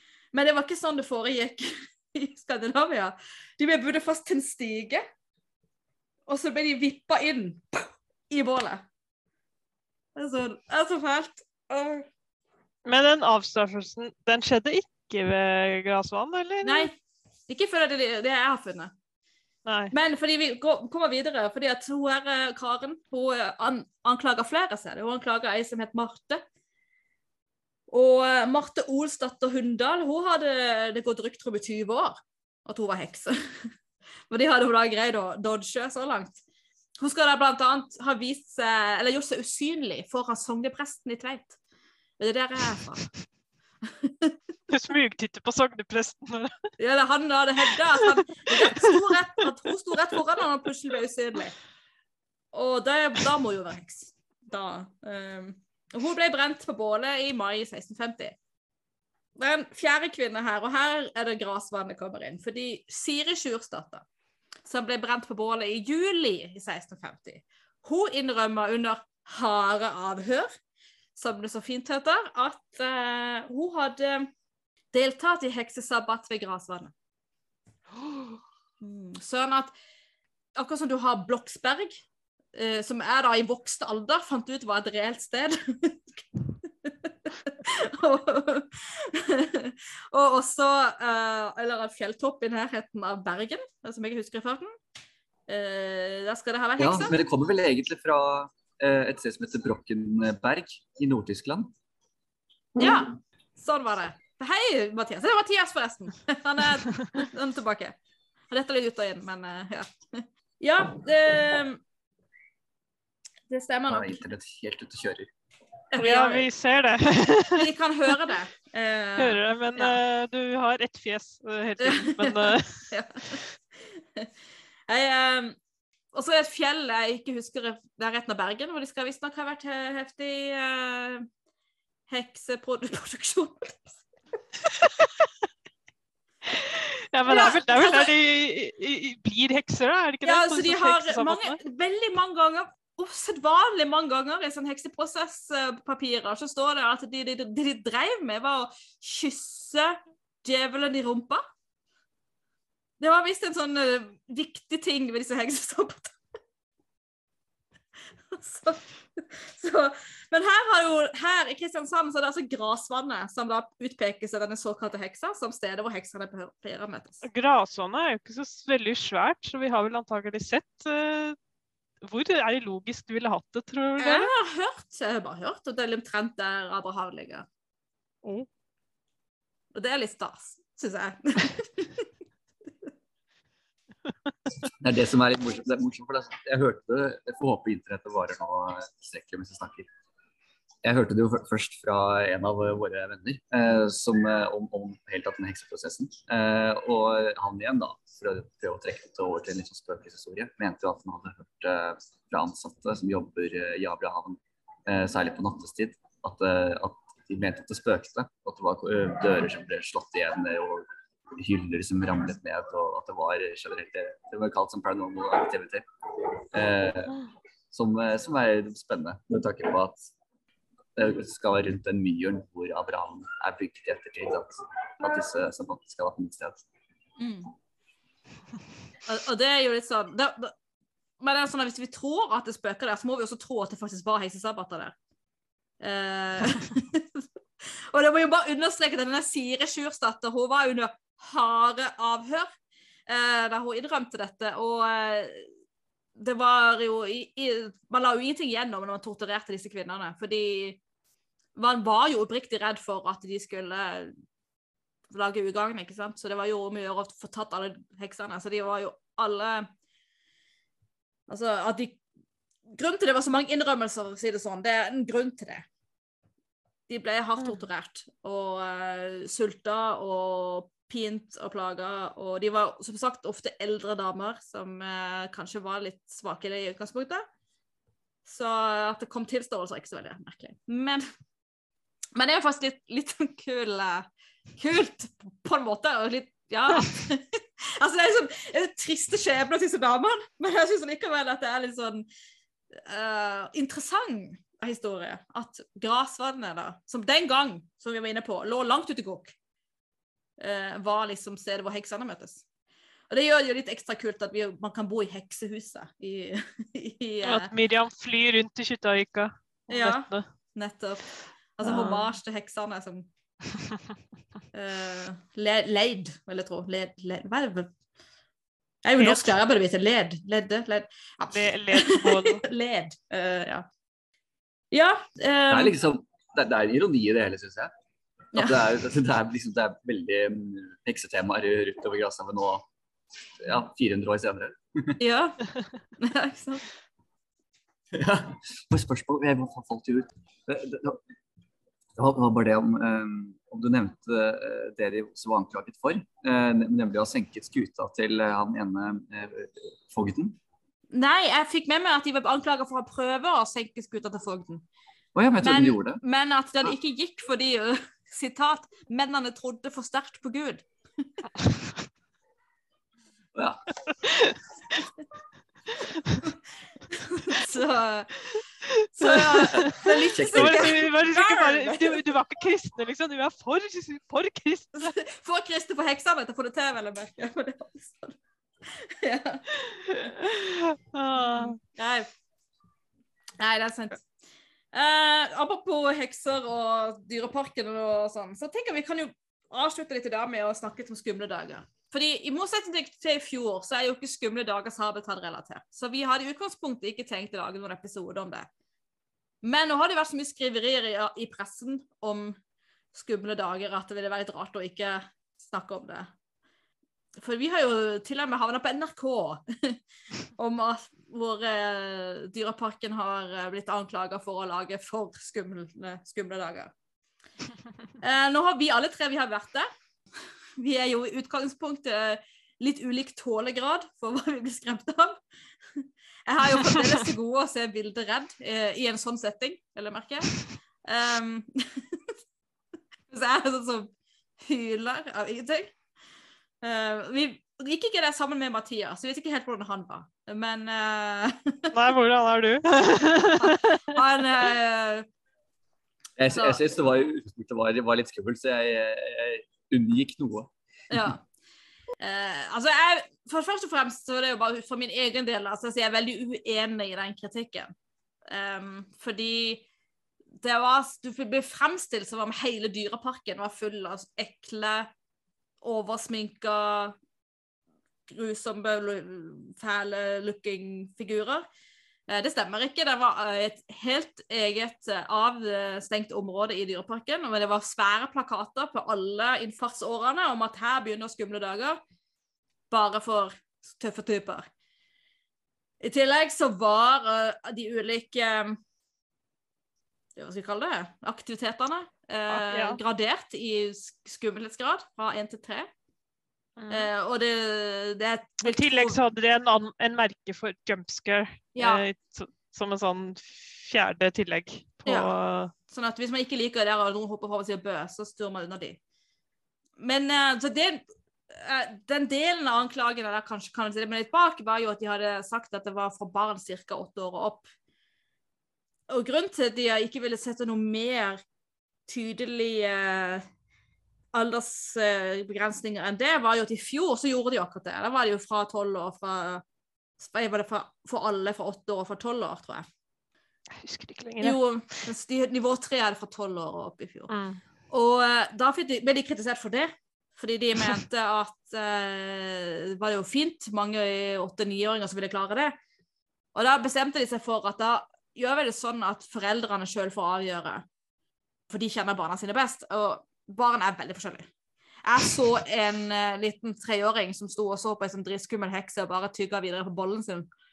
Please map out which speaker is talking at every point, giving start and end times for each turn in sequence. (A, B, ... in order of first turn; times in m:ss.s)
0:00.3-0:05.0 A
0:06.3-0:08.8 A
0:10.2-0:12.1 A
0:12.8-0:16.9 B
0:16.6-0:16.9 A
0:17.5-0:18.9 A
0:19.6-0:19.9 B
0:19.9-0:26.4 A
0:27.9-0:33.7 A
0:34.3-0:36.4 A
0:37.0-0:41.6 A
0:42.2-0:43.0 A
0:43.9-0:44.3 A
0:44.7-0:46.6 B
0:46.8-0:51.6 A
0:48.5-0:48.9 B
0:52.5-0:58.4 A
0:59.4-1:04.0 A
1:04.7-1:10.5 A
1:11.2-1:14.3 A
1:14.9-1:16.9 A
1:18.8-1:19.7 A
1:20.6-1:22.0 A
1:22.5-1:34.7 A
1:35.5-1:37.1 A
1:36.8-1:41.7 C
1:42.8-1:48.0 A
1:48.5-1:51.8 A
1:53.5-1:54.2 A
1:53.9-1:55.3 C
1:55.9-1:56.5 A
1:56.0-1:57.7 B
1:57.6-2:00.0 A
1:59.2-2:03.4 B
2:01.8-2:04.3 A
2:04.9-2:05.6 A
2:06.1-2:11.2 A
2:12.1-2:14.0 A
2:14.6-2:15.3 B
2:16.4-2:21.6 B
2:17.3-2:18.1 A
2:20.2-2:31.4 A
2:33.0-2:36.2 A
2:38.3-2:47.2 A
2:47.2-2:51.4 B
2:52.0-2:54.3 B
2:54.0-2:57.4 A
2:59.7-3:02.0 A
3:04.8-3:09.9 C
3:10.8-3:30.8 C
3:31.4-3:35.8 C
3:36.5-3:40.0 C
3:41.0-3:46.6 C
3:47.2-3:47.5 A
3:49.0-3:50.5 A
3:51.2-3:54.9 A
3:55.8-4:02.5 A
4:03.1-4:05.5 A
4:06.2-4:10.8 A
4:11.6-4:14.1 A
4:15.1-4:19.7 A
4:21.3-4:22.0 A
4:22.7-4:25.6 A
4:26.9-4:37.2 A
4:38.2-4:41.0 A
4:42.2-4:52.0 A
4:52.7-4:59.3 A
5:00.4-5:02.4 A
5:03.1-5:07.5 A
5:07.2-5:10.2 B
5:09.7-5:11.0 A
5:11.6-5:13.1 A
5:11.6-5:12.1 B
5:14.5-5:17.7 A
5:18.8-5:23.6 A
5:19.0-5:19.3 B
5:21.3-5:22.4 B
5:24.7-5:25.7 A
5:25.5-5:27.7 C
5:28.3-5:28.6 A
5:28.4-5:32.7 C
5:33.4-5:35.0 C
5:35.0-5:35.4 A
5:36.0-5:36.6 A
5:37.9-5:41.0 C
5:42.0-5:50.4 C
5:50.9-5:54.6 A
5:55.1-5:56.0 C
5:55.4-6:00.6 A
6:01.4-6:01.7 B
6:03.3-6:03.6 C
6:04.0-6:04.3 B
6:06.9-6:08.2 A
6:08.7-6:15.0 B
6:08.9-6:12.1 A
6:09.6-6:10.8 C
6:14.8-6:18.2 A
6:18.7-6:19.5 A
6:19.9-6:21.6 B
6:21.2-6:22.1 A
6:23.4-6:24.0 A
6:24.7-6:38.5 A
6:39.4-6:42.4 A
6:42.9-6:46.1 A
6:47.2-6:49.8 A
6:50.4-6:56.7 A
6:58.0-6:59.7 A
7:00.6-7:05.2 A
7:05.7-7:12.0 A
7:06.6-7:06.9 B
7:13.1-7:15.7 A
7:16.6-7:21.7 A
7:21.7-7:24.0 B
7:23.4-7:25.0 A
7:26.2-7:30.5 C
7:26.3-7:26.6 A
7:30.9-7:31.2 A
7:32.0-7:37.7 A
7:38.3-7:39.6 A
7:40.4-7:44.9 A
7:45.6-7:47.0 A
7:48.1-7:51.4 A
7:52.1-8:01.8 A
8:02.7-8:04.5 A
8:05.8-8:08.6 A
8:10.2-8:15.7 A
8:12.3-8:12.8 B
8:16.6-8:16.9 B
8:16.7-8:19.0 A
8:18.4-8:25.5 B
8:21.5-8:21.8 A
8:24.8-8:25.1 A
8:25.7-8:28.8 A
8:29.8-8:37.4 A
8:38.9-8:41.2 A
8:41.9-8:43.2 A
8:44.1-8:49.4 A
8:50.0-8:52.6 A
8:53.5-8:54.4 B
8:54.2-8:57.1 A
8:57.1-8:57.4 B
8:57.7-9:05.5 A
9:06.3-9:10.6 A
9:11.5-9:14.3 A
9:14.8-9:20.3 A